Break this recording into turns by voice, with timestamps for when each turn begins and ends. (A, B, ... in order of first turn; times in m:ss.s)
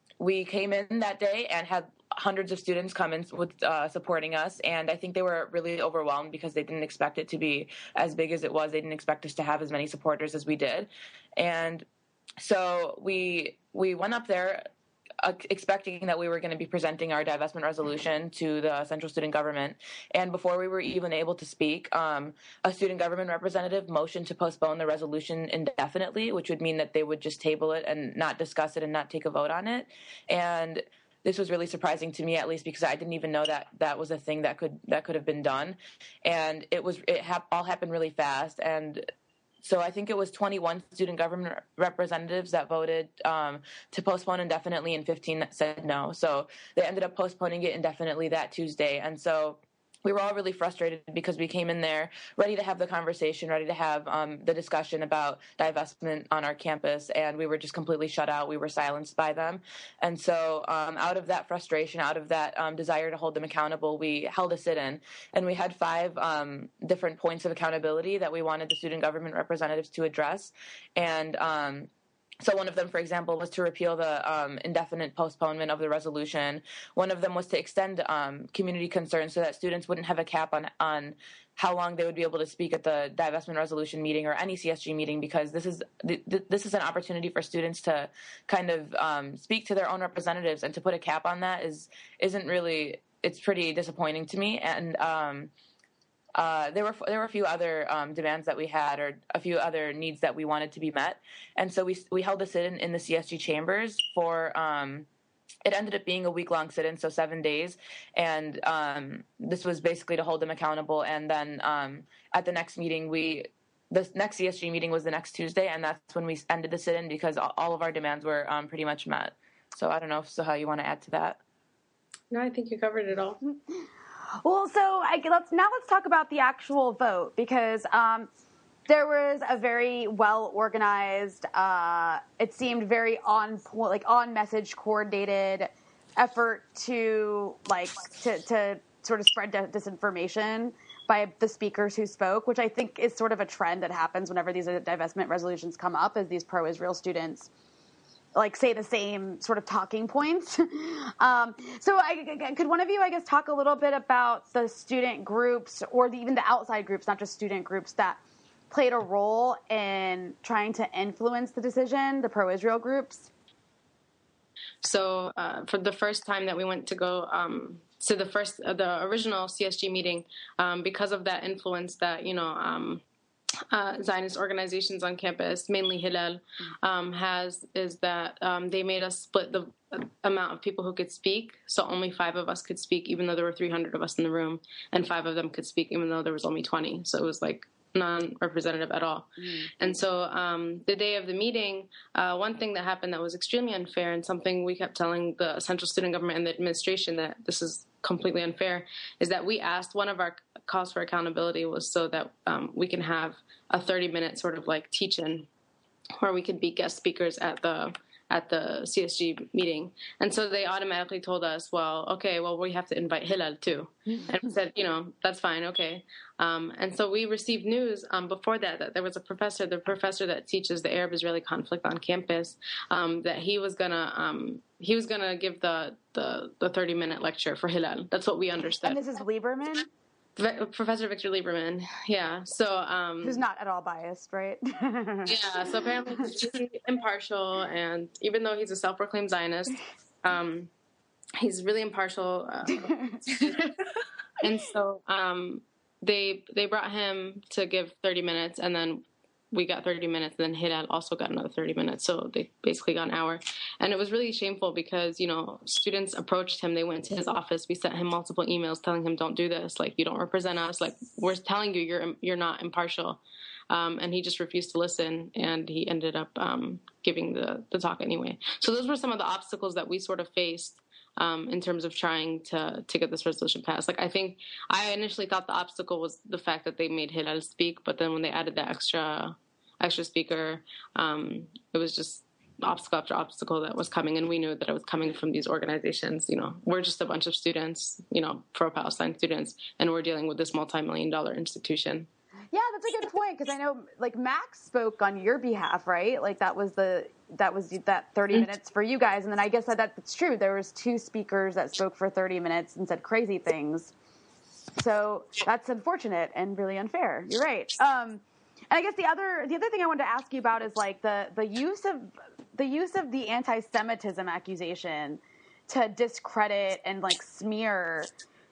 0:00.2-0:11.8 A
0:12.4-0:14.7 A
0:15.2-0:39.1 A
0:39.6-1:11.9 A
1:12.4-1:35.5 A
1:36.4-1:45.1 A
1:45.6-2:01.4 A
2:02.3-2:03.4 B
2:04.4-2:08.3 C
2:08.9-2:27.5 C
2:28.3-2:43.3 C
2:44.8-2:53.0 B
2:53.7-3:25.5 B
3:09.4-3:09.7 C
3:26.2-3:49.0 B
3:48.8-3:49.9 C
3:50.4-3:53.4 B
3:53.2-3:55.7 C
3:55.2-4:00.7 B
4:01.4-4:03.7 B
4:02.7-4:03.4 C
4:04.4-4:52.1 B
4:52.5-5:03.9 C
5:04.8-5:18.1 C